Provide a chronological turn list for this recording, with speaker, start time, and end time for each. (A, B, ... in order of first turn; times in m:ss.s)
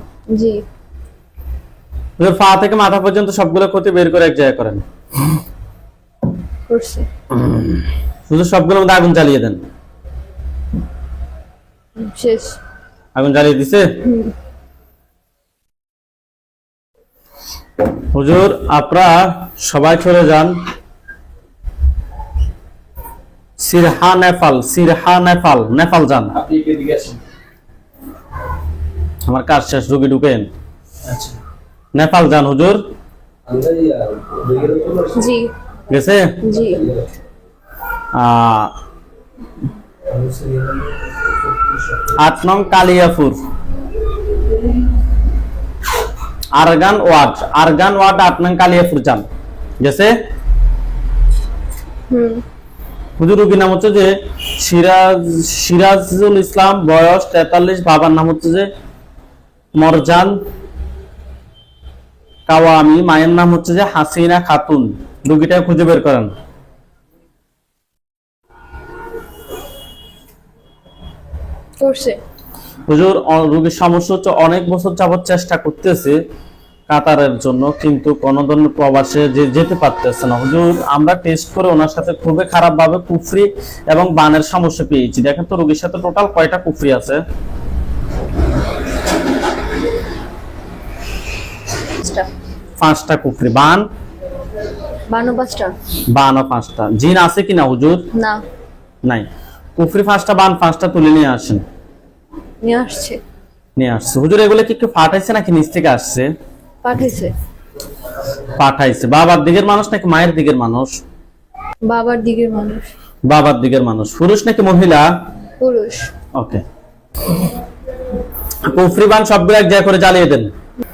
0:00.3-0:00.6 A
0:02.2-0:04.8 B
0:06.7-0:07.1 A
0:07.4-0:09.6 B
0:12.0-0:12.6 A
0:13.2-0:14.0 B
0:14.0-0:14.3 A
0:18.1-0:20.6 B
0:23.6-0:26.4 B
0:26.4-0:27.2 C
0:29.3-0:30.5 B
0:31.1-0:31.3 C
0:31.9-0:32.8 B
0:33.5-0:35.2 C
0:35.1-0:35.5 A
0:35.9-0:36.4 B
0:36.4-0:36.8 A
0:38.1-0:38.7 B
0:40.1-0:40.9 C
0:42.2-0:43.4 B
0:46.6-0:49.2 B
0:49.8-0:50.1 B
0:52.1-0:52.4 A
0:53.2-0:58.7 B
0:59.7-1:00.4 B
1:02.5-1:06.3 B
1:11.8-1:12.2 A
1:12.9-1:16.2 B
1:16.9-1:27.2 B
1:32.0-1:32.3 A
1:32.8-1:33.8 B
1:35.1-1:35.8 A
1:36.1-1:38.0 B
1:38.1-1:38.4 A
1:39.0-1:41.6 B
1:42.6-1:43.2 A
1:43.8-1:46.3 B
1:46.8-1:47.3 A
1:48.6-1:51.0 B
1:51.9-1:52.9 A
1:53.3-1:55.1 B
1:55.6-1:56.1 A
1:56.3-1:56.6 B
1:58.6-2:00.5 B